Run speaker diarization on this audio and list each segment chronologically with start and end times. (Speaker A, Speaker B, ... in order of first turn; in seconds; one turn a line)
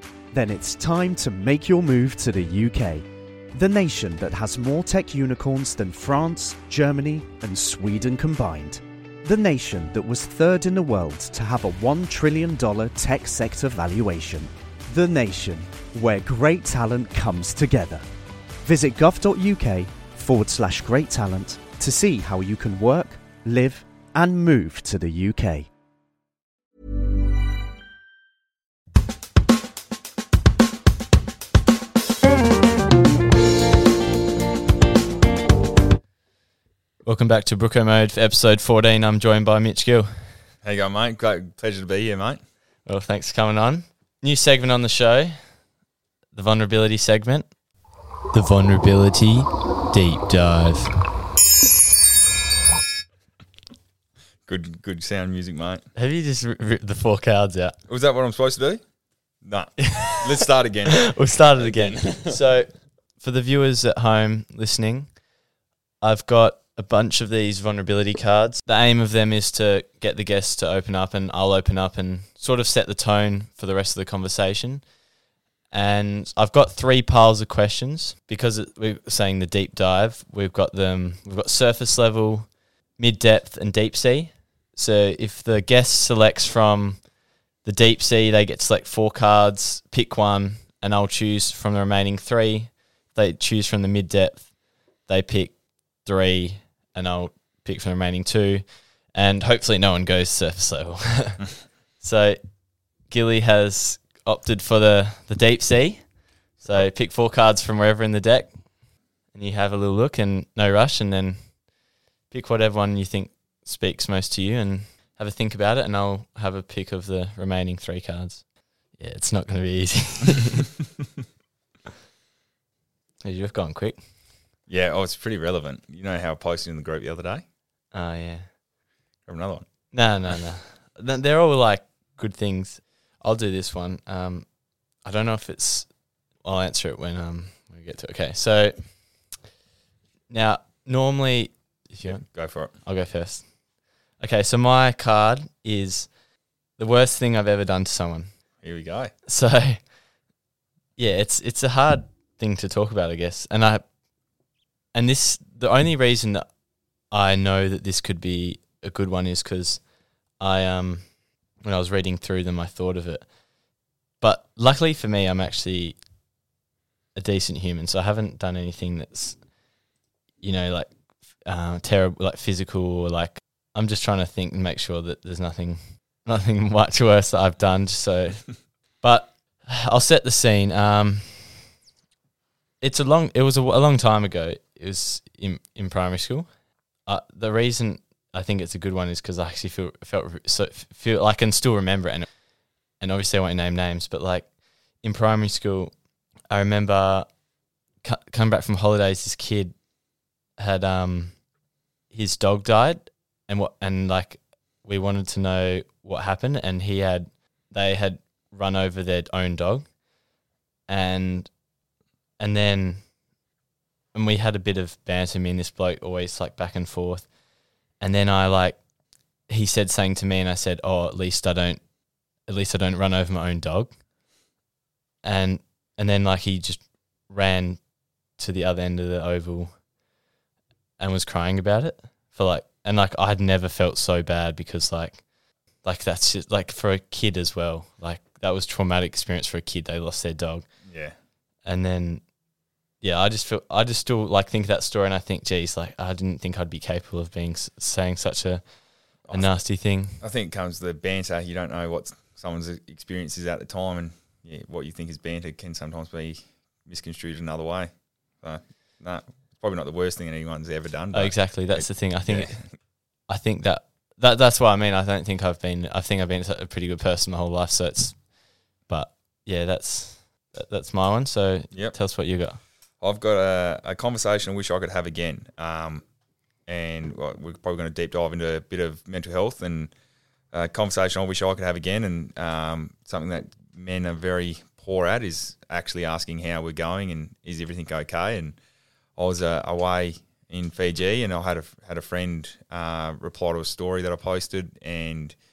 Speaker A: 0.3-18.0
Speaker A: 18.6-25.7
Speaker B: 37.0-40.5
Speaker C: 40.6-42.4
Speaker B: 42.9-45.7
Speaker B: 46.3-47.6
Speaker B: 48.3-50.9
Speaker C: 54.5-55.9
Speaker B: 56.0-57.8
Speaker C: 57.9-58.8
Speaker C: 59.4-62.4
Speaker B: 59.8-60.4
Speaker B: 61.1-65.2
Speaker B: 66.0-74.9
Speaker B: 75.7-87.1
Speaker B: 87.6-108.7
Speaker C: 106.6-106.9
Speaker B: 109.3-111.7
Speaker B: 112.3-120.7
Speaker B: 123.2-124.1
Speaker C: 124.7-127.5
Speaker B: 127.9-128.5
Speaker C: 129.3-129.7
Speaker B: 129.9-139.4
Speaker B: 140.3-146.2
Speaker C: 142.0-142.8
Speaker B: 146.7-148.5
Speaker C: 148.6-149.1
Speaker B: 149.3-149.9
Speaker B: 151.0-153.9
Speaker B: 154.9-156.6
Speaker B: 157.1-163.4
Speaker B: 164.2-166.0
Speaker B: 167.2-169.5
Speaker B: 170.4-181.7
Speaker B: 182.8-197.4
Speaker B: 198.0-199.9
Speaker B: 200.6-201.5
Speaker B: 202.1-210.0
Speaker B: 210.9-211.6
Speaker B: 212.4-213.1
Speaker B: 214.1-217.3
Speaker B: 217.9-218.8
Speaker B: 219.4-224.0
Speaker B: 225.2-229.8
Speaker B: 231.0-240.7
Speaker C: 240.8-241.2
Speaker B: 241.6-242.3
Speaker B: 243.0-250.2
Speaker C: 249.2-249.6
Speaker C: 250.2-262.7
Speaker B: 261.1-268.3
Speaker B: 268.8-272.6
Speaker C: 271.7-272.0
Speaker C: 273.0-276.0
Speaker C: 276.7-279.9
Speaker C: 280.5-288.6
Speaker C: 289.2-295.4